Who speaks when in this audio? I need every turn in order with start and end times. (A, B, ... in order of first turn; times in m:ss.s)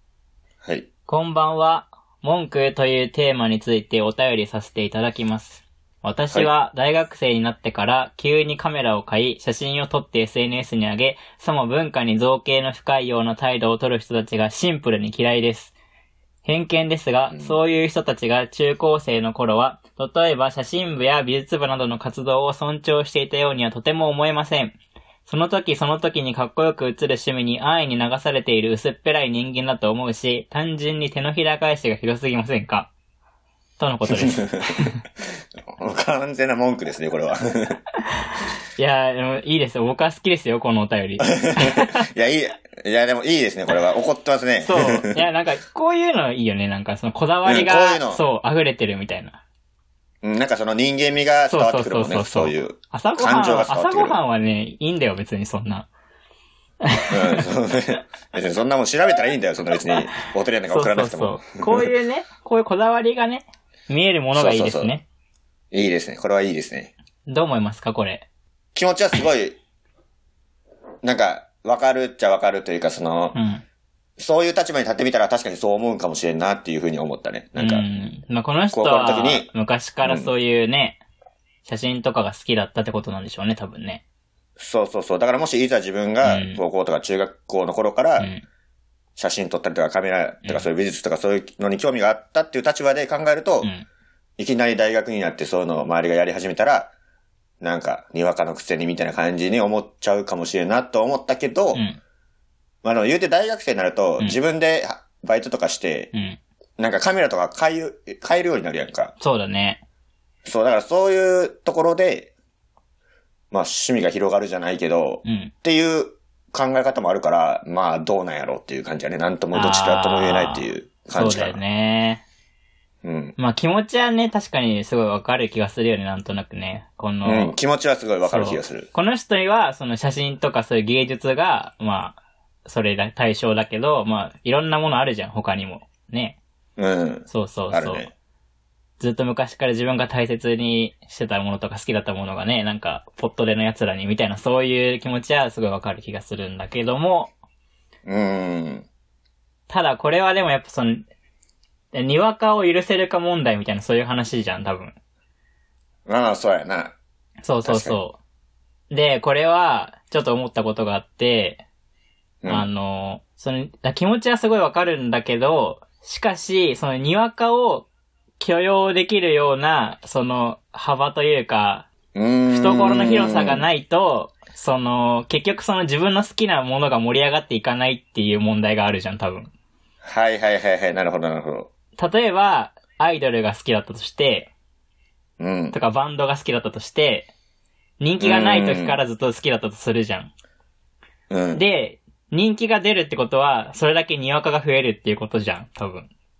0:01.1-0:15.8 A
0:16.4-0:32.9 A
0:17.3-0:17.6 B
0:33.8-0:35.0 A
0:34.1-0:34.7 B
0:35.7-0:37.8 B
0:38.8-0:42.1 A
0:41.2-0:45.2 B
0:44.6-0:49.4 A
0:47.4-0:48.2 B
0:50.2-0:54.2 B
0:51.5-0:55.9 A
0:56.8-0:57.4 A
0:57.1-1:01.9 B
1:00.7-1:05.0 A
1:04.3-1:05.0 B
1:05.7-1:06.9 B
1:07.3-1:08.3 A
1:08.8-1:09.6 B
1:11.0-1:13.4 B
1:13.4-1:13.6 A
1:14.2-1:17.8 B
1:17.6-1:21.0 A
1:18.7-1:19.5 B
1:20.0-1:20.3 B
1:21.6-1:24.0 A
1:24.6-1:28.3 B
1:26.2-1:26.6 A
1:29.2-1:33.7 B
1:34.4-1:36.9 B
1:37.6-1:41.8 B
1:42.8-1:46.1 B
1:46.1-1:46.4 A
1:46.8-1:49.1 B
1:49.2-1:49.8 A
1:50.4-1:52.3 B
1:53.5-2:01.6 B
1:55.2-1:55.5 A
1:59.5-2:02.2 A
2:03.0-2:03.4 B
2:03.4-2:07.6 A
2:07.2-2:08.9 B
2:08.2-2:16.4 A
2:16.8-2:18.1 B
2:17.3-2:18.1 A
2:19.0-2:27.3 A
2:28.0-2:28.9 B
2:29.7-2:31.1 A
2:31.9-2:34.9 A
2:36.1-2:37.0 B
2:37.4-2:38.2 A
2:37.6-2:38.0 B
2:38.9-2:41.6 A
2:42.4-2:42.7 B
2:42.5-2:51.9 A
2:52.2-2:53.7 B
2:52.5-2:59.5 A
3:00.0-3:01.7 B
3:02.0-3:04.5 A
3:05.4-3:05.8 B
3:05.7-3:07.3 A
3:08.0-3:10.3 A
3:08.2-3:09.0 B
3:11.3-3:11.6 B
3:11.5-3:16.1 A